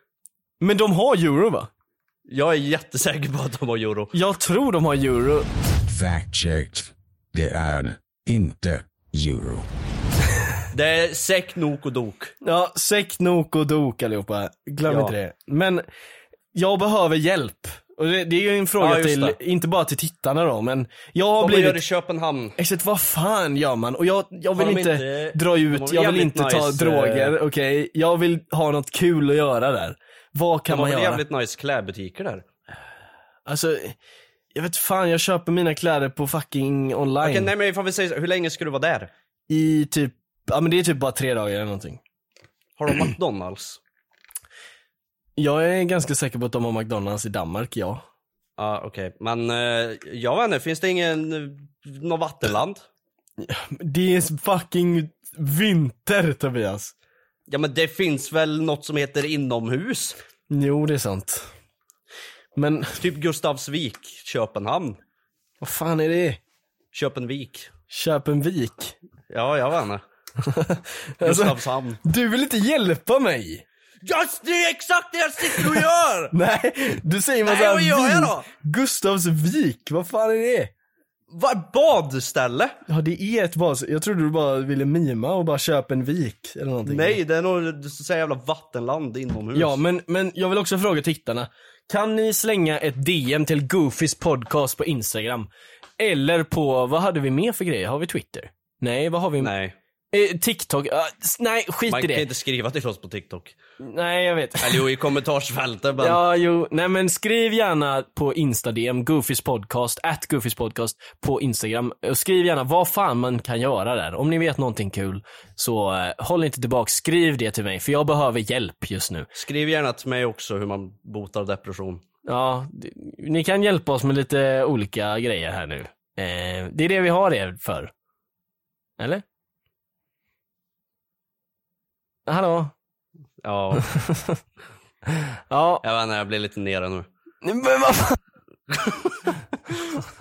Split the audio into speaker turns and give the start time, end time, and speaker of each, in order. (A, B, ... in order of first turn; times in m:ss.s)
0:00.6-0:01.7 A
0:02.3-0:04.1 B
0:04.1-0:05.5 A
0:05.9-0:09.7 C
0:10.7-0:12.3 B
0:12.4-0:15.8 A
0:14.9-0:15.2 B
0:16.5-0:21.8 A
0:18.8-0:19.4 B
0:21.4-0:22.6 B
0:22.6-0:31.2 A
0:24.5-0:27.4 B
0:30.7-0:32.4 B
0:33.5-0:34.0 A
0:34.5-0:37.5 A
0:37.2-0:39.1 B
0:39.5-0:42.0 A
0:42.8-0:43.8 B
0:45.4-0:48.0 A
0:48.6-0:52.8 B
0:53.4-0:56.9 A
0:57.5-1:00.2 B
1:00.5-1:01.5 A
1:02.6-1:03.0 A
1:03.0-1:05.0 B
1:05.6-1:06.4 A
1:06.9-1:07.7 B
1:07.9-1:09.0 A
1:09.3-1:10.0 B
1:10.4-1:13.6 A
1:11.2-1:12.0 B
1:14.0-1:16.3 B
1:15.5-1:20.7 A
1:17.4-1:18.5 B
1:21.3-1:22.8 B
1:22.9-1:27.2 A
1:26.9-1:29.8 B
1:29.6-1:39.5 A
1:39.4-1:39.8 B
1:40.1-1:42.3 A
1:41.9-1:43.6 B
1:43.8-1:44.9 A
1:44.6-1:46.2 B
1:46.0-1:59.3 A
1:59.4-2:02.0 B
2:02.3-2:07.9 A
2:09.0-2:09.2 A
2:12.3-2:12.7 A
2:13.4-2:13.9 B
2:13.8-2:14.4 A
2:15.1-2:15.8 A
2:15.8-2:17.1 B
2:17.4-2:18.2 A
2:18.7-2:19.4 B